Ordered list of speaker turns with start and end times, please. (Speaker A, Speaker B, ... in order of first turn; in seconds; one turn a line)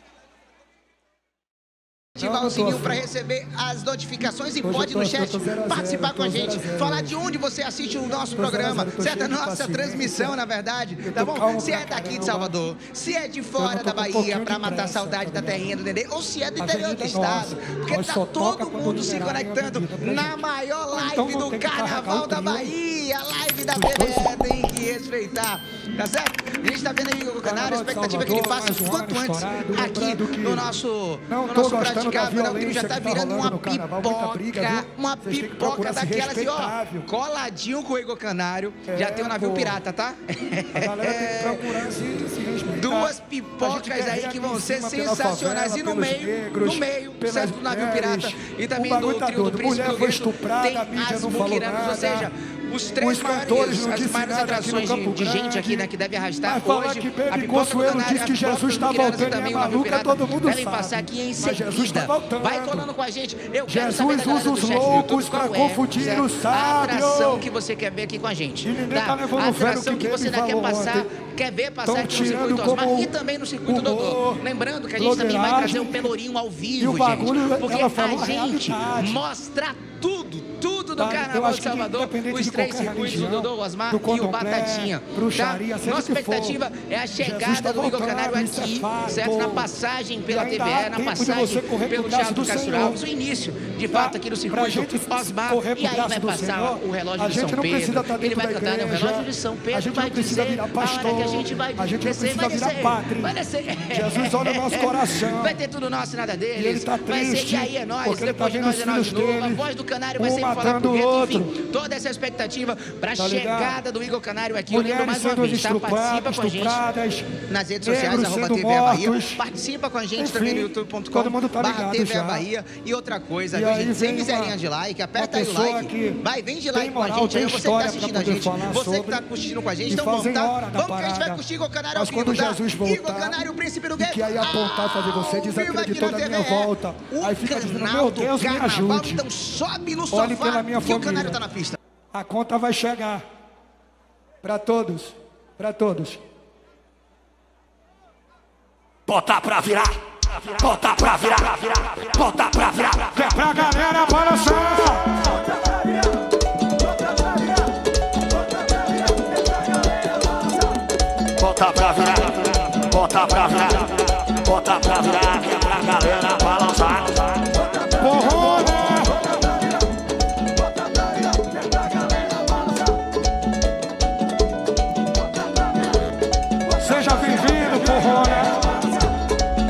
Speaker A: 2.2-41.6
Speaker B: 2.2-3.1
Speaker B: 4.6-7.2
Speaker B: 8.3-10.4
Speaker B: 11.0-12.6
Speaker B: 13.6-15.7
Speaker B: 16.6-22.7
Speaker B: 23.7-24.4
Speaker B: 27.4-30.7
Speaker B: 31.3-37.1
Speaker B: 38.9-39.8
Speaker B: 40.7-52.3
Speaker A: 42.8-116.8
Speaker B: 53.0-55.9
Speaker B: 56.4-62.9
Speaker B: 63.7-67.5
Speaker B: 68.6-71.1
Speaker B: 71.8-73.1
Speaker B: 73.7-74.4
Speaker B: 75.0-76.1
Speaker B: 76.8-79.2
Speaker B: 81.0-86.6
Speaker B: 87.2-89.7
Speaker B: 90.3-93.0
Speaker B: 93.9-103.4
Speaker B: 103.9-105.6
Speaker B: 106.5-109.6
Speaker B: 110.2-111.6
Speaker B: 113.2-113.8
Speaker B: 114.7-119.4
Speaker A: 117.5-141.8
Speaker B: 120.2-122.4
Speaker B: 123.5-124.6
Speaker B: 125.1-129.2
Speaker B: 129.9-131.4
Speaker B: 131.9-133.4
Speaker B: 134.0-139.2
Speaker B: 140.1-141.4
Speaker B: 142.1-143.2
Speaker B: 144.4-146.2
Speaker C: 149.1-153.4
Speaker B: 153.1-155.3
Speaker C: 161.4-167.5
Speaker B: 167.9-169.4
Speaker B: 176.8-178.7